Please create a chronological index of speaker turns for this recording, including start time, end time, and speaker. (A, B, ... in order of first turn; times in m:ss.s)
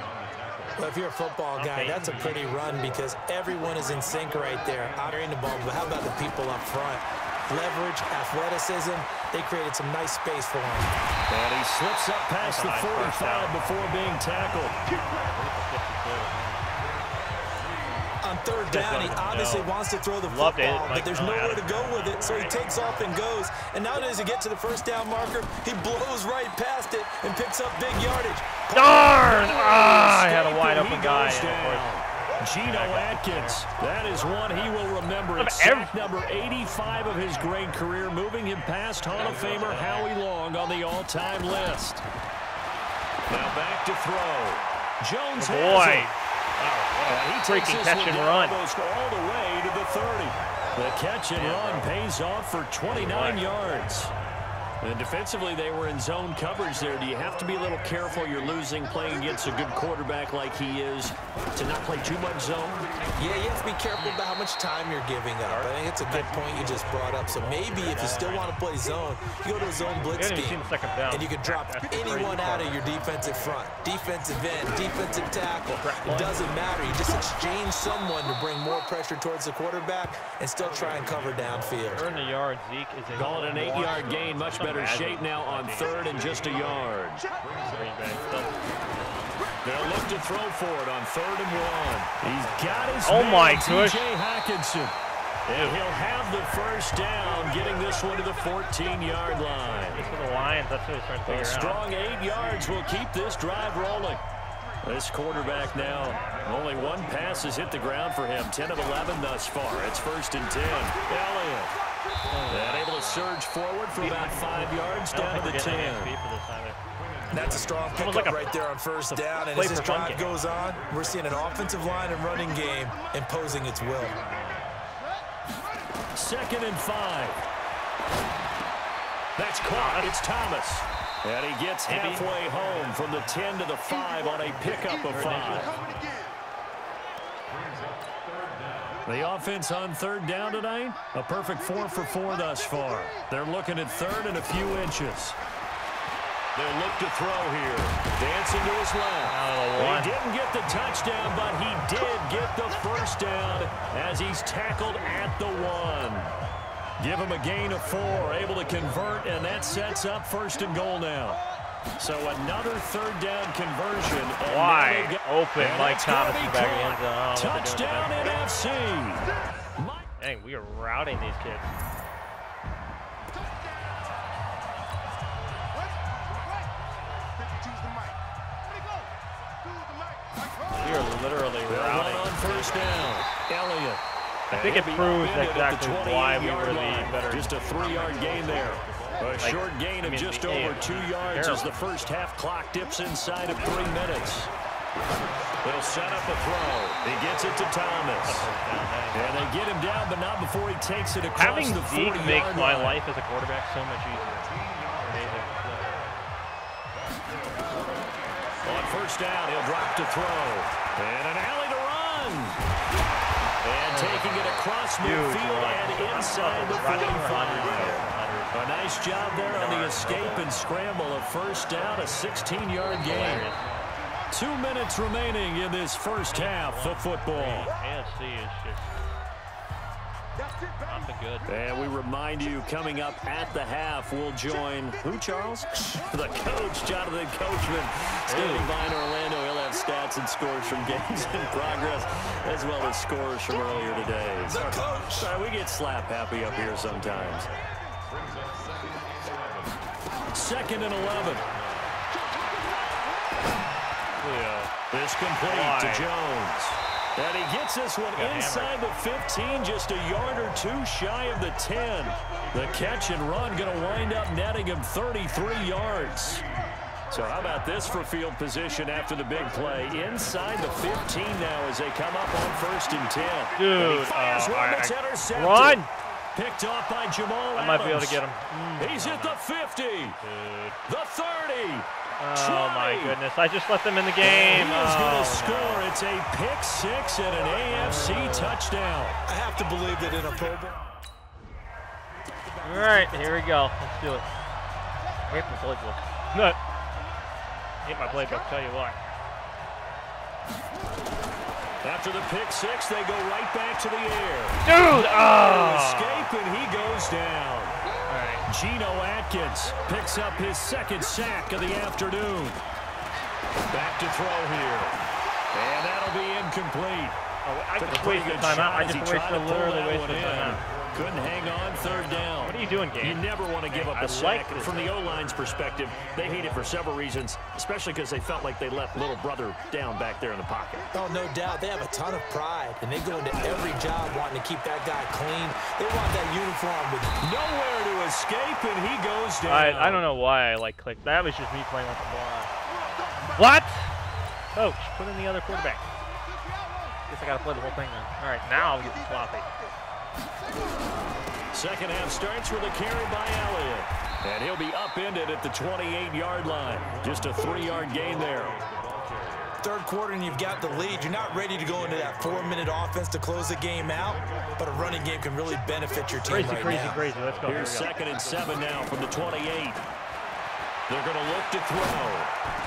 0:00.8-0:10.9 A
0:01.6-0:02.4 B
0:11.3-0:14.8 C
0:12.4-0:13.6 B
0:15.1-0:16.7 B
0:18.2-0:29.1 A
0:18.6-0:19.7 B
0:20.2-0:22.6 B
0:28.7-0:31.9 B
0:29.2-0:42.0 C
0:32.6-0:33.6 B
0:35.4-0:35.9 B
0:39.2-0:40.1 B
0:43.3-0:46.1 C
0:45.4-0:48.6 B
0:47.1-0:54.1 C
0:51.3-0:51.9 B
0:52.9-0:53.4 B
0:54.8-1:02.9 C
1:03.2-1:22.0 A
1:05.5-1:05.7 B
1:07.3-1:08.6 B
1:10.1-1:13.5 B
1:15.7-1:16.4 B
1:21.8-1:26.0 B
1:23.2-1:27.3 C
1:27.7-1:28.5 B
1:29.6-1:35.0 C
1:32.2-1:34.1 B
1:35.5-1:40.1 C
1:35.5-1:35.8 B
1:39.9-1:41.8 B
1:41.3-1:44.2 C
1:44.8-1:51.8 C
1:52.3-1:53.3 B
1:52.5-1:56.1 C
1:54.0-2:00.3 B
1:57.3-2:04.2 A
2:06.2-2:07.4 C
2:09.4-2:15.7 C
2:09.7-2:10.1 B
2:11.9-2:12.3 B
2:15.1-2:15.8 B
2:19.0-2:25.4 C
2:26.5-2:36.3 C
2:29.2-2:30.2 B
2:37.0-2:41.4 C
2:42.0-2:50.1 C
2:44.4-2:48.4 B
2:50.2-2:51.7 B
3:00.7-3:03.0 B
3:01.7-3:04.0 C
3:04.5-3:08.4 B
3:04.5-3:14.5 C
3:09.4-3:11.9 B
3:15.6-3:18.5 C
3:18.3-3:19.4 B
3:19.1-3:23.0 C
3:21.4-3:25.6 B
3:28.6-3:32.6 C
3:33.6-3:43.5 C
3:33.9-3:38.6 B
3:39.5-3:40.5 B
3:43.0-3:43.7 B
3:44.3-3:47.7 C
3:46.3-3:48.9 B
3:50.9-3:51.5 B
3:51.5-4:07.5 C
3:58.3-3:58.7 B
4:04.5-4:05.3 A
4:10.3-4:11.5 C
4:14.2-4:14.7 B
4:14.9-4:26.5 C
4:15.5-4:16.1 B
4:18.2-4:18.8 B
4:27.1-4:35.8 C
4:33.6-4:35.9 B
4:36.4-4:38.2 C
4:37.6-4:39.4 B
4:38.8-4:40.2 C
4:40.2-4:40.8 B
4:40.9-4:43.2 C
4:42.2-4:45.9 B
4:44.2-4:49.2 C
4:47.7-4:48.6 B
4:49.3-4:50.8 A
4:52.6-4:54.3 B
4:55.3-4:56.6 B
4:57.8-4:59.0 B
5:01.8-5:07.8 C
5:04.6-5:06.3 B
5:08.1-5:08.5 B
5:08.5-5:12.6 C
5:13.7-5:15.0 C
5:15.5-5:17.2 C
5:17.4-5:20.7 B
5:17.8-5:30.9 C
5:22.0-5:24.9 B
5:30.9-5:37.2 A
5:37.2-5:40.1 C
5:39.4-5:42.5 B
5:43.4-5:44.0 B
5:44.5-5:45.8 B
5:47.1-5:49.5 B
5:51.5-5:58.6 C
5:59.6-6:07.0 A
6:06.3-6:08.4 B
6:07.4-6:09.8 C
6:10.9-6:12.3 C